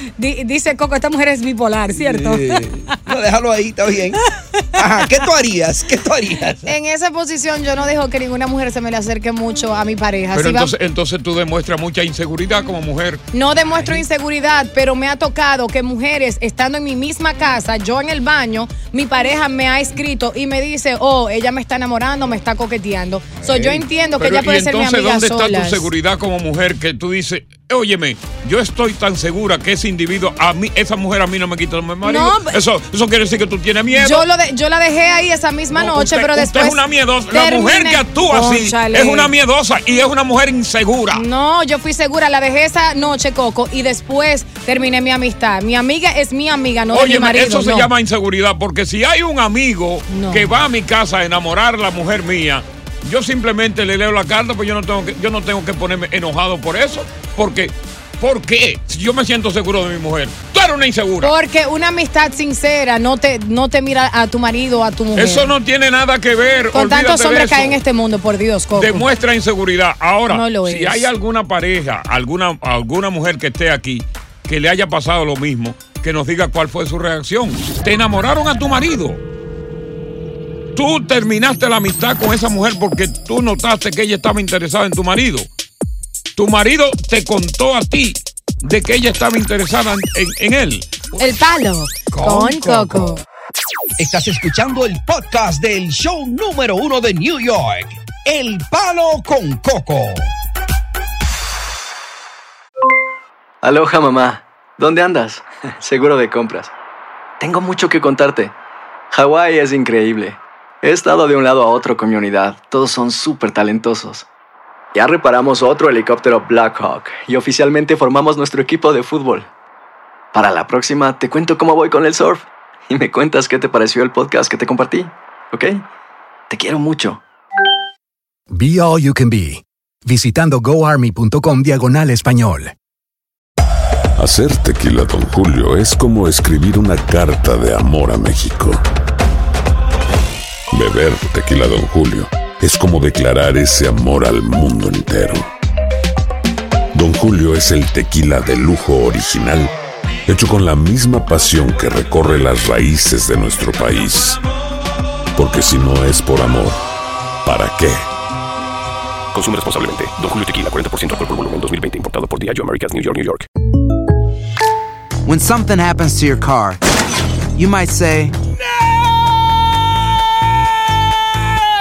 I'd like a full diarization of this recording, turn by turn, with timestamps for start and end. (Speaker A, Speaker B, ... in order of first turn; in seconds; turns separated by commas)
Speaker A: 0.2-3.0, Speaker B: 1.9-4.2, Speaker A: 4.2-4.8, Speaker B: 4.8-6.7, Speaker A: 6.7-10.7, Speaker C: 10.3-13.2, Speaker A: 13.3-25.9, Speaker B: 13.7-14.0, Speaker B: 23.4-23.9, Speaker C: 24.2-34.3, Speaker A: 32.0-32.6, Speaker A: 33.9-39.3, Speaker C: 35.7-41.2, Speaker A: 41.1-47.9, Speaker C: 46.9-61.3, Speaker A: 50.1-50.5, Speaker A: 61.2-65.5, Speaker C: 65.2-67.8, Speaker A: 66.7-69.1, Speaker C: 68.8-79.2, Speaker A: 70.3-71.1, Speaker C: 80.8-85.5, Speaker C: 86.4-91.1, Speaker A: 91.2-93.2, Speaker B: 92.1-93.2, Speaker B: 94.0-100.3, Speaker D: 103.6-106.7, Speaker D: 107.4-108.5, Speaker D: 109.1-114.3, Speaker D: 114.9-119.5, Speaker D: 120.3-125.8, Speaker D: 126.5-127.2, Speaker E: 128.5-132.7, Speaker F: 134.2-138.8, Speaker F: 140.7-145.5, Speaker F: 146.9-149.7, Speaker F: 150.3-154.4, Speaker F: 155.3-156.8, Speaker F: 157.4-158.0, Speaker G: 159.3-163.5, Speaker H: 165.2-166.8, Speaker H: 167.6-168.4